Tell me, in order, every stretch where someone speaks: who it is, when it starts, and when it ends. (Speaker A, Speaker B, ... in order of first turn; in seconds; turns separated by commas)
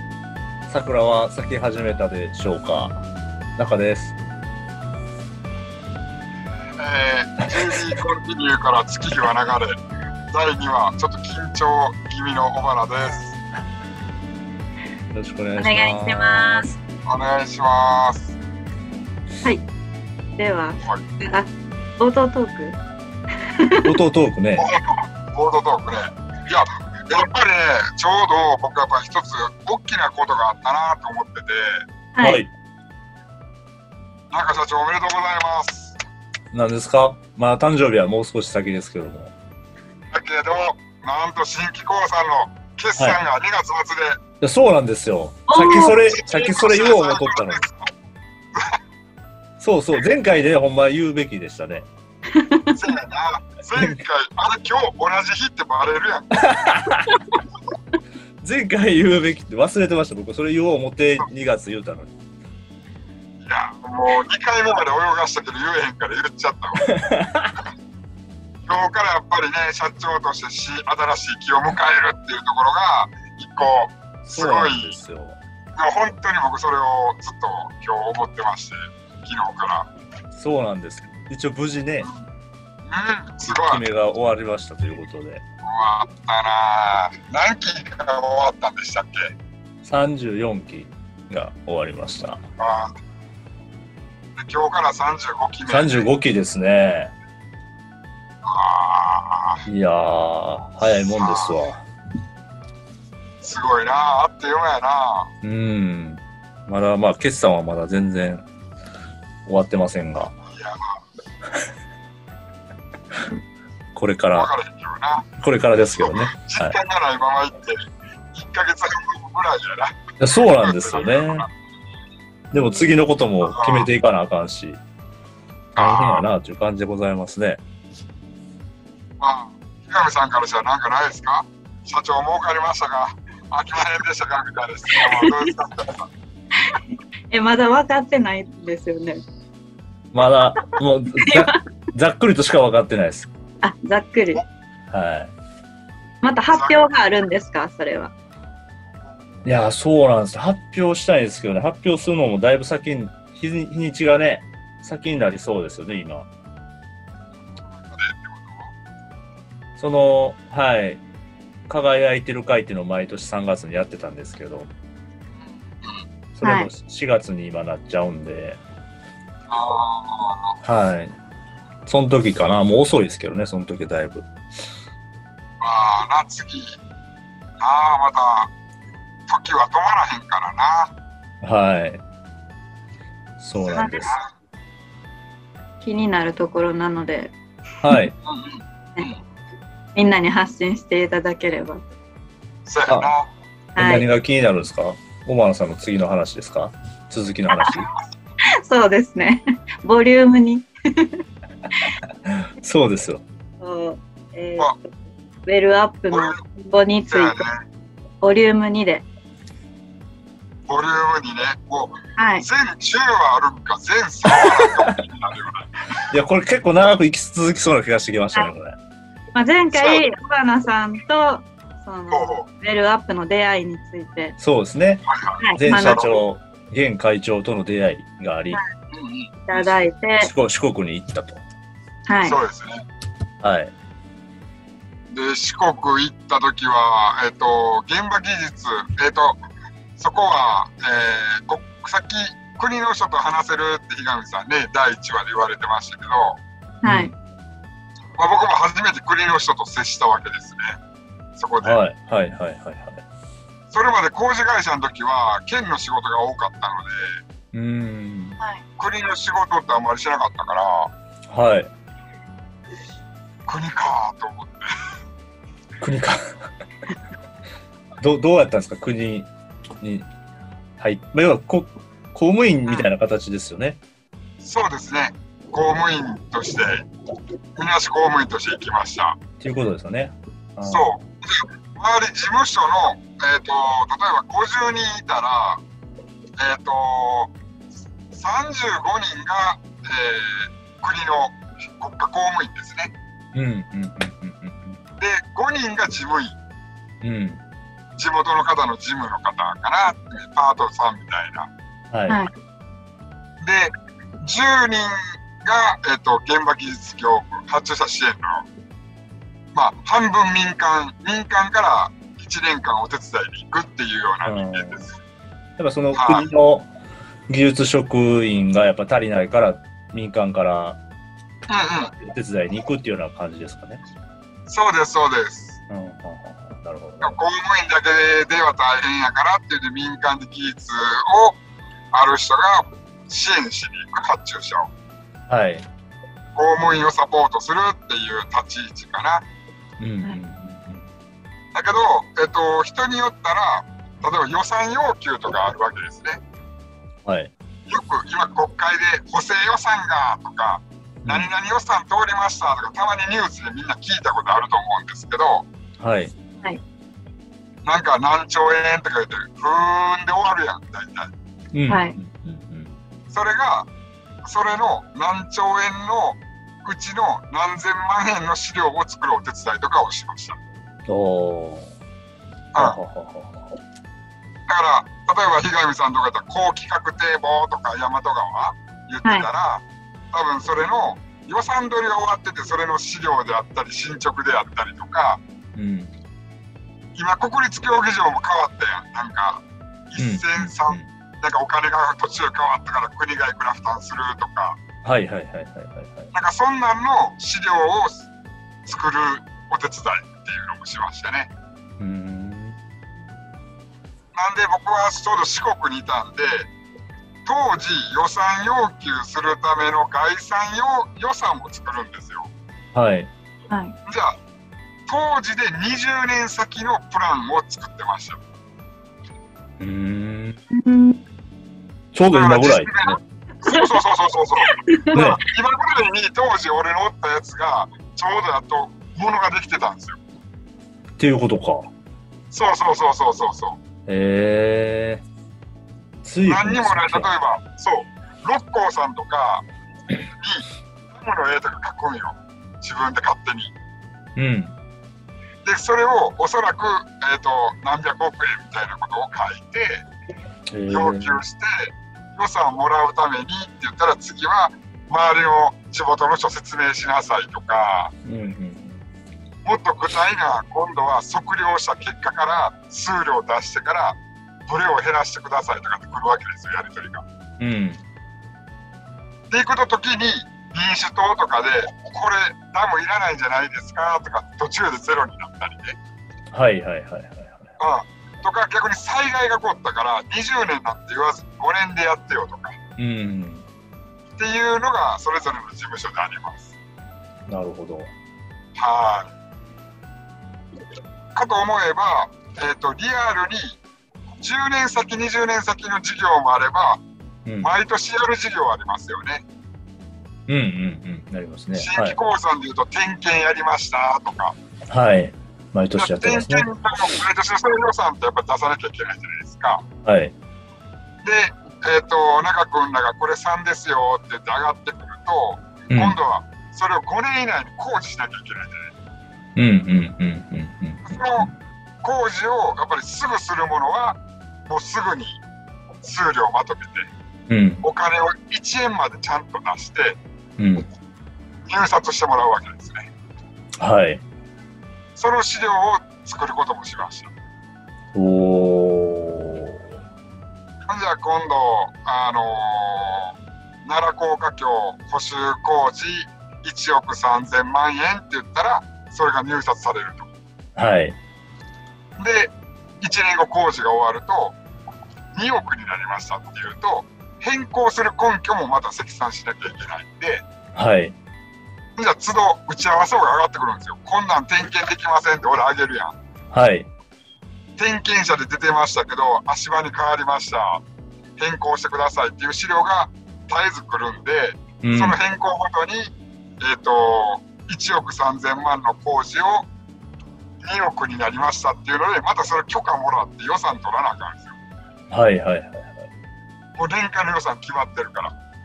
Speaker A: 0.7-3.0, Speaker A: 3.6-4.2, Speaker B: 6.8-9.8, Speaker B: 10.3-13.3, Speaker A: 15.1-16.8, Speaker C: 15.6-16.7, Speaker B: 17.1-18.3, Speaker C: 20.4-22.8, Speaker C: 23.5-23.9, Speaker A: 23.8-24.6, Speaker B: 24.6-31.9, Speaker C: 32.1-32.5, Speaker A: 32.2-32.5, Speaker B: 34.3-36.0, Speaker A: 36.5-39.3, Speaker B: 40.1-44.2, Speaker A: 44.4-47.6, Speaker C: 45.5-46.0, Speaker B: 46.1-47.9, Speaker A: 49.6-51.9, Speaker C: 52.3-52.9, Speaker B: 52.8-56.4, Speaker A: 53.7-54.0, Speaker A: 56.4-57.0, Speaker A: 58.4-62.1, Speaker B: 63.4-66.9, Speaker A: 66.8-67.5, Speaker B: 68.7-75.0, Speaker A: 74.3-75.4, Speaker B: 75.8-79.9, Speaker A: 80.3-82.1, Speaker B: 82.9-83.8, Speaker A: 83.5-85.4, Speaker B: 85.7-89.3, Speaker A: 89.8-92.4, Speaker B: 92.6-92.9, Speaker B: 94.4-96.1, Speaker A: 95.7-97.1, Speaker B: 98.5-99.6, Speaker A: 99.7-101.8, Speaker B: 100.8-101.7, Speaker B: 103.4-105.3, Speaker A: 105.4-108.4, Speaker A: 109.5-110.3, Speaker B: 110.5-111.0, Speaker A: 113.9-114.5, Speaker B: 114.3-115.3, Speaker A: 115.4-116.8, Speaker B: 116.0-117.8, Speaker B: 118.3-121.5, Speaker A: 120.2-121.5, Speaker A: 122.5-124.8, Speaker B: 123.4-123.9, Speaker B: 125.8-126.2, Speaker A: 125.8-127.6, Speaker B: 129.2-136.1, Speaker C: 134.9-135.6, Speaker C: 136.6-139.2, Speaker A: 140.1-143.3, Speaker C: 140.7-141.6, Speaker C: 143.6-144.4, Speaker A: 144.9-145.3, Speaker C: 146.2-148.1, Speaker B: 146.5-146.9, Speaker A: 149.4-156.3, Speaker B: 157.7-158.7, Speaker A: 159.8-161.0, Speaker A: 161.7-164.7, Speaker A: 166.4-168.6, Speaker C: 166.4-166.7, Speaker B: 169.5-170.6, Speaker A: 170.6-171.2, Speaker A: 171.9-174.3, Speaker B: 175.6-176.8, Speaker B: 177.6-178.5, Speaker B: 179.3-180.9, Speaker A: 181.4-182.0, Speaker A: 183.4-184.2, Speaker B: 183.6-184.3, Speaker C: 183.7-184.0, Speaker C: 185.8-187.3, Speaker A: 187.8-188.2, Speaker B: 188.3-189.1, Speaker C: 189.9-191.8, Speaker B: 192.7-193.3, Speaker A: 192.9-193.1, Speaker C: 193.8-194.1, Speaker A: 193.8-197.9, Speaker C: 197.5-197.8, Speaker C: 198.5-201.2, Speaker A: 202.3-203.2, Speaker C: 203.6-204.9, Speaker C: 205.5-207.5, Speaker B: 206.1-206.4, Speaker B: 207.1-207.6, Speaker C: 208.2-209.1, Speaker B: 210.7-216.0, Speaker C: 212.2-212.5, Speaker A: 214.4-214.9, Speaker A: 216.1-218.8, Speaker C: 219.3-224.3, Speaker B: 219.7-220.0, Speaker B: 222.1-222.5, Speaker A: 224.4-228.6, Speaker B: 225.1-226.2, Speaker C: 225.4-226.0, Speaker B: 228.9-229.7, Speaker C: 229.4-230.3, Speaker A: 230.2-231.4, Speaker C: 232.1-232.4, Speaker B: 232.2-232.8, Speaker A: 233.4-233.7, Speaker B: 235.1-239.4, Speaker B: 240.0-246.4, Speaker C: 246.8-247.2, Speaker A: 246.8-247.1, Speaker B: 248.2-250.8, Speaker B: 251.4-251.8, Speaker A: 251.6-253.0, Speaker B: 253.7-257.2, Speaker A: 257.5-258.4, Speaker B: 258.8-260.9, Speaker A: 261.3-261.7, Speaker B: 263.5-264.7, Speaker A: 265.8-266.2, Speaker A: 268.0-269.3, Speaker A: 269.8-270.1, Speaker A: 270.8-273.8, Speaker B: 274.4-276.8, Speaker B: 277.6-279.2, Speaker A: 279.4-281.0, Speaker B: 280.7-285.6, Speaker B: 286.4-287.3, Speaker B: 288.1-292.9, Speaker A: 293.3-294.8, Speaker B: 295.0-296.4, Speaker A: 297.0-297.4, Speaker B: 298.0-301.5, Speaker A: 301.9-302.2, Speaker B: 303.4-308.4, Speaker B: 309.5-314.9, Speaker A: 314.2-314.9, Speaker A: 315.6-316.7, Speaker B: 315.9-316.3, Speaker A: 317.3-320.8, Speaker B: 321.5-321.9, Speaker A: 322.0-323.8, Speaker B: 324.5-325.6, Speaker A: 325.7-327.2, Speaker B: 327.0-331.4, Speaker B: 331.9-334.7, Speaker A: 335.3-335.7, Speaker B: 336.4-339.2, Speaker A: 339.8-340.9, Speaker B: 341.5-346.2, Speaker A: 347.1-347.3, Speaker B: 347.7-355.5, Speaker A: 351.0-351.3, Speaker A: 355.8-356.1, Speaker B: 357.6-361.1, Speaker A: 361.5-362.8, Speaker C: 361.7-362.0, Speaker B: 363.1-363.7, Speaker B: 364.2-370.4, Speaker A: 370.9-371.7, Speaker A: 372.6-373.6, Speaker B: 374.5-385.2, Speaker C: 379.0-379.3, Speaker A: 385.6-385.9, Speaker B: 386.9-394.6, Speaker A: 390.0-390.9, Speaker A: 394.8-396.1, Speaker B: 396.1-398.1, Speaker B: 398.7-401.3, Speaker A: 401.8-402.6, Speaker B: 404.1-406.5, Speaker B: 407.3-412.3, Speaker A: 412.7-413.1, Speaker C: 413.5-413.8, Speaker B: 413.9-414.2, Speaker B: 414.9-418.2, Speaker A: 419.6-420.4, Speaker C: 420.5-421.0, Speaker A: 421.9-423.0, Speaker B: 422.1-424.5, Speaker C: 423.4-423.8, Speaker C: 424.4-425.3, Speaker A: 424.9-425.2, Speaker B: 425.2-430.0, Speaker A: 431.0-431.7, Speaker B: 432.3-433.6, Speaker A: 433.9-435.0, Speaker A: 436.0-437.1, Speaker B: 436.3-439.4, Speaker B: 440.2-443.5, Speaker A: 444.2-444.5, Speaker B: 445.4-449.9, Speaker A: 450.5-451.2, Speaker B: 450.7-457.9, Speaker A: 458.1-458.8, Speaker B: 459.4-467.0, Speaker A: 467.4-467.8, Speaker B: 469.3-475.8, Speaker A: 476.3-477.5, Speaker B: 477.6-482.6, Speaker A: 482.8-483.4, Speaker B: 484.2-486.5, Speaker A: 487.3-487.9, Speaker B: 488.6-489.1, Speaker B: 491.1-493.6, Speaker B: 494.2-496.8, Speaker A: 497.3-497.5, Speaker B: 497.4-499.2, Speaker A: 500.3-502.0, Speaker B: 501.6-504.4, Speaker A: 504.7-506.5, Speaker B: 505.8-509.6, Speaker A: 509.9-510.1, Speaker B: 511.0-518.7, Speaker A: 515.7-516.0, Speaker A: 519.4-521.3, Speaker B: 520.8-521.3, Speaker B: 521.8-525.2, Speaker B: 525.8-526.9, Speaker A: 527.3-527.6, Speaker B: 527.6-530.0, Speaker A: 530.4-530.7, Speaker B: 531.5-532.9, Speaker A: 533.6-534.0, Speaker B: 535.0-537.1, Speaker A: 537.9-539.6, Speaker B: 540.6-550.1, Speaker A: 550.6-551.0, Speaker B: 552.0-554.4, Speaker B: 555.1-560.2, Speaker A: 560.5-561.0, Speaker B: 561.8-565.9, Speaker A: 566.3-566.7, Speaker B: 567.6-570.6, Speaker B: 571.2-579.5, Speaker A: 574.6-575.0, Speaker B: 580.4-584.3, Speaker A: 584.9-585.9, Speaker B: 586.6-588.1